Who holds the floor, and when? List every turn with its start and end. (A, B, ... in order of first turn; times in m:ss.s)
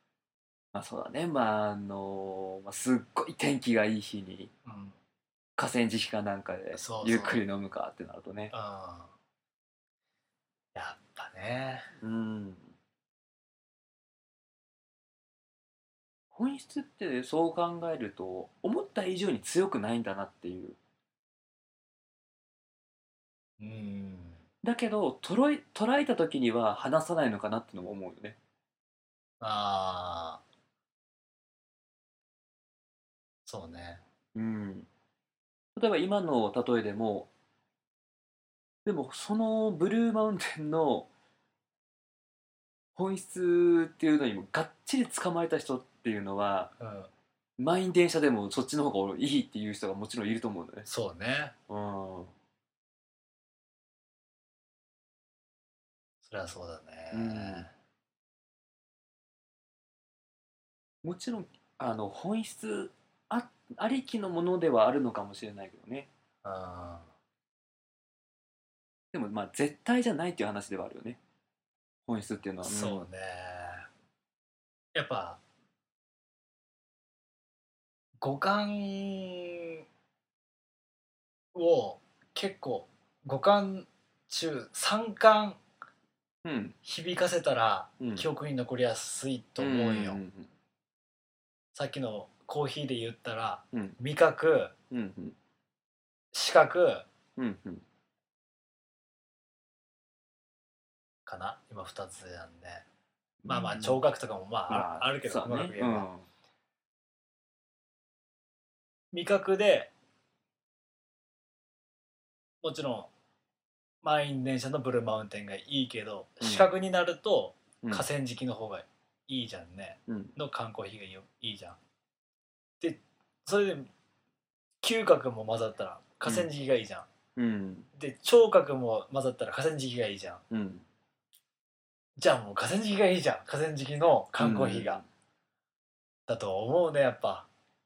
0:00.7-0:04.5 A
0:04.6-0:05.0 B
0:05.6-0:08.5 A
0:06.7-0:07.4 B
0:08.5-0:09.1 B
0:10.7-0:11.9 B
0:12.0-0:12.7 A
0:16.3-0:20.8 A
0:23.6-0:24.4 B
0:24.6-0:28.4 A
0:29.4-0:30.4 B
0:33.4-0:34.0 B
0:34.3-0:34.9 A
0:35.8-0:37.3 A
0:38.8-0:41.1 A
0:43.0-0:46.7 A
0:46.8-0:47.1 B
0:47.6-0:50.9 A
0:50.8-0:51.5 B
0:51.7-0:52.3 A
0:56.2-0:57.7 B
0:57.1-0:57.7 A
1:01.0-1:06.1 A
1:06.4-1:07.1 B
1:09.1-1:11.2 A
1:12.1-1:13.0 A
1:12.6-1:13.8 B
1:14.9-1:15.4 B
1:18.2-1:19.8 B
1:21.5-1:25.6 B
1:26.4-1:26.8 A
1:26.8-1:30.2 B
1:28.0-1:28.3 A
1:29.6-1:30.5 A
1:31.7-1:34.7 B
1:33.7-1:34.0 A
1:34.9-1:35.4 A
1:36.3-1:37.0 B
1:37.4-1:37.8 A
1:41.2-1:42.8 B
1:43.4-1:44.0 A
1:43.5-1:46.1 B
1:44.7-1:46.3 A
1:49.1-1:49.9 B
1:52.6-1:53.1 B
1:54.0-2:01.8 B
1:56.4-1:56.7 A
2:00.1-2:00.3 A
2:02.8-2:03.9 B
2:04.8-2:07.1 B
2:07.4-2:07.9 A
2:07.9-2:10.4 B
2:10.5-2:10.8 A
2:12.2-2:15.0 B
2:14.4-2:15.0 A
2:16.3-2:17.5 B